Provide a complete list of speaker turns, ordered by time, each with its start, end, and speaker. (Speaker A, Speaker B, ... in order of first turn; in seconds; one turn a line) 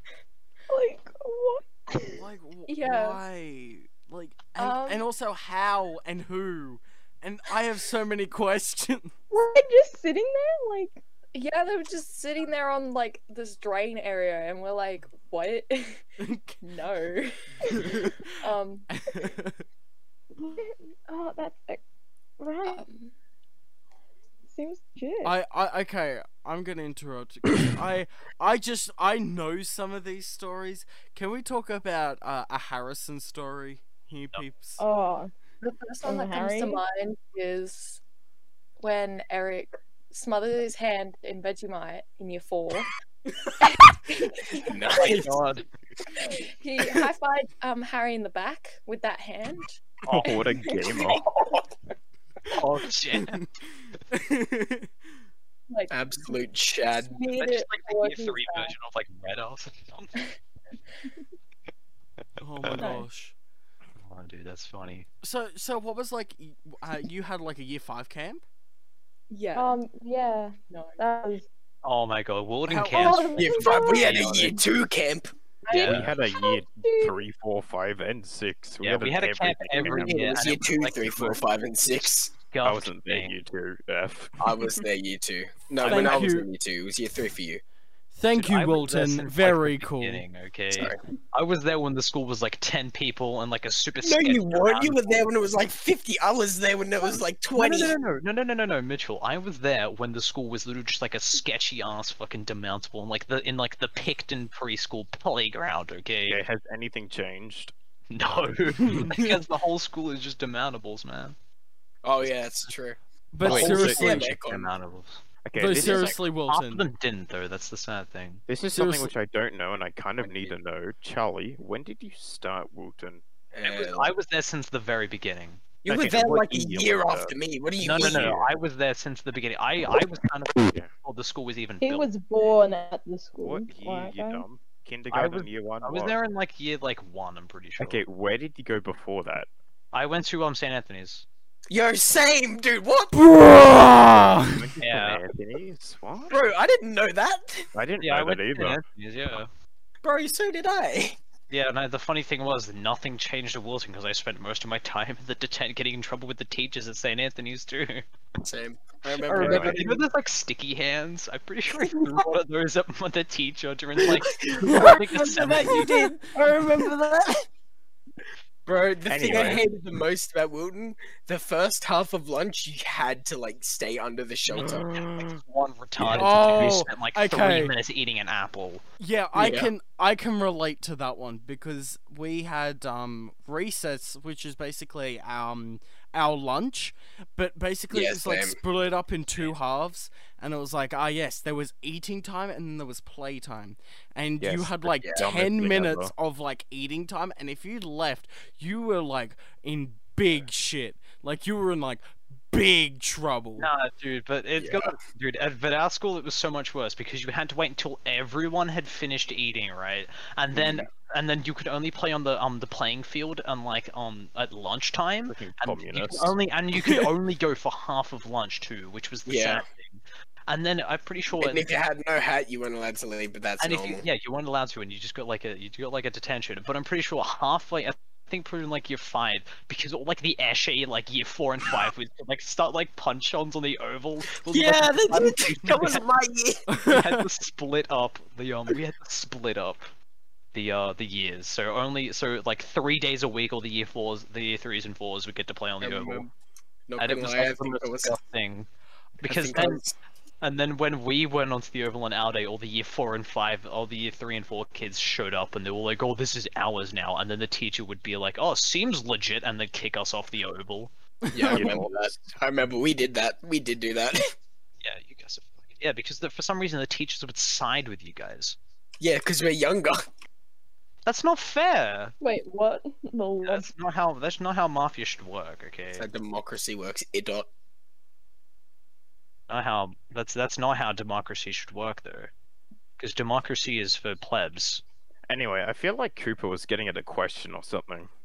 Speaker A: 0.7-2.3
Speaker B: 2.1-9.1
Speaker C: 2.7-3.2
Speaker C: 4.6-5.0
Speaker A: 9.3-11.0
Speaker C: 11.3-16.0
Speaker B: 16.2-16.6
Speaker C: 16.6-18.9
Speaker B: 17.7-18.3
Speaker B: 18.9-19.6
Speaker A: 20.4-21.8
Speaker A: 22.4-22.8
Speaker C: 22.7-23.1
Speaker A: 24.5-25.4
Speaker B: 25.2-34.8
Speaker A: 34.8-35.3
Speaker C: 35.6-38.0
Speaker A: 36.0-36.8
Speaker C: 38.8-42.9
Speaker C: 43.6-44.7
Speaker D: 44.5-45.4
Speaker E: 44.9-45.7
Speaker C: 46.2-50.4
Speaker F: 50.1-51.2
Speaker E: 52.5-53.4
Speaker B: 54.1-54.9
Speaker D: 55.9-57.2
Speaker C: 57.1-58.7
Speaker E: 57.4-60.1
Speaker B: 62.4-63.3
Speaker A: 62.8-63.1
Speaker E: 64.0-65.1
Speaker B: 65.2-68.4
Speaker C: 69.3-69.8
Speaker A: 69.6-71.5
Speaker C: 70.7-71.0
Speaker E: 71.8-74.6
Speaker B: 72.7-73.5
Speaker A: 72.9-74.2
Speaker D: 73.4-75.3
Speaker C: 75.7-76.1
Speaker E: 75.7-76.1
Speaker F: 75.8-80.3
Speaker A: 76.3-77.2
Speaker E: 78.8-81.4
Speaker D: 79.8-82.3
Speaker E: 82.4-83.3
Speaker F: 82.6-84.4
Speaker D: 84.4-87.6
Speaker E: 85.8-86.3
Speaker B: 85.8-86.5
Speaker B: 88.1-90.2
Speaker E: 88.3-95.3
Speaker D: 94.0-98.0
Speaker E: 97.5-106.4
Speaker F: 106.3-107.7
Speaker E: 108.1-111.4
Speaker F: 108.2-109.1
Speaker B: 108.8-109.3
Speaker D: 112.0-114.7
Speaker E: 112.2-112.7
Speaker B: 113.3-114.3
Speaker F: 113.5-114.2
Speaker E: 113.5-115.2
Speaker F: 115.5-116.2
Speaker B: 115.6-116.9
Speaker D: 115.8-116.2
Speaker E: 116.5-118.4
Speaker F: 118.5-123.2
Speaker B: 118.7-119.1
Speaker D: 123.5-124.1
Speaker E: 123.6-125.7
Speaker D: 125.8-128.4
Speaker F: 125.9-127.4
Speaker E: 127.8-132.1
Speaker F: 128.0-128.5
Speaker F: 130.6-130.9
Speaker A: 131.8-134.4
Speaker F: 133.4-136.2
Speaker E: 135.1-138.0
Speaker F: 137.8-139.5
Speaker E: 139.9-141.3
Speaker D: 141.7-143.3
Speaker B: 143.1-144.7
Speaker F: 144.0-146.3
Speaker E: 144.8-145.2
Speaker D: 146.3-147.7
Speaker F: 147.7-148.8
Speaker E: 148.0-149.5
Speaker D: 150.0-151.2
Speaker E: 151.5-158.1
Speaker D: 158.4-160.0
Speaker E: 159.1-166.1
Speaker F: 159.4-159.8
Speaker D: 164.0-167.4
Speaker D: 168.7-175.0
Speaker F: 169.1-169.7
Speaker B: 174.6-175.4
Speaker E: 175.2-178.8
Speaker F: 176.0-176.3
Speaker B: 176.2-177.7
Speaker B: 179.0-203.7
Speaker D: 179.3-179.7
Speaker D: 187.9-188.6
Speaker F: 194.4-196.1
Speaker D: 195.0-195.3
Speaker E: 203.6-221.7
Speaker D: 204.6-205.0
Speaker D: 210.5-210.9
Speaker F: 215.3-216.3
Speaker D: 219.3-219.6
Speaker D: 221.4-224.1
Speaker E: 223.6-236.0
Speaker D: 234.4-236.6
Speaker B: 236.7-237.2
Speaker E: 236.9-239.9
Speaker E: 240.5-246.3
Speaker D: 245.8-246.3
Speaker D: 246.9-248.2
Speaker E: 247.0-248.7
Speaker E: 249.2-249.8
Speaker D: 249.2-250.0
Speaker E: 250.4-260.9
Speaker B: 261.3-261.8
Speaker D: 261.3-264.2
Speaker F: 261.5-262.4
Speaker E: 264.8-268.6
Speaker D: 269.0-270.0
Speaker E: 271.1-272.1
Speaker A: 272.2-273.7
Speaker E: 273.4-276.1
Speaker D: 275.9-277.5
Speaker E: 279.5-282.3
Speaker E: 283.0-284.8
Speaker F: 285.3-288.1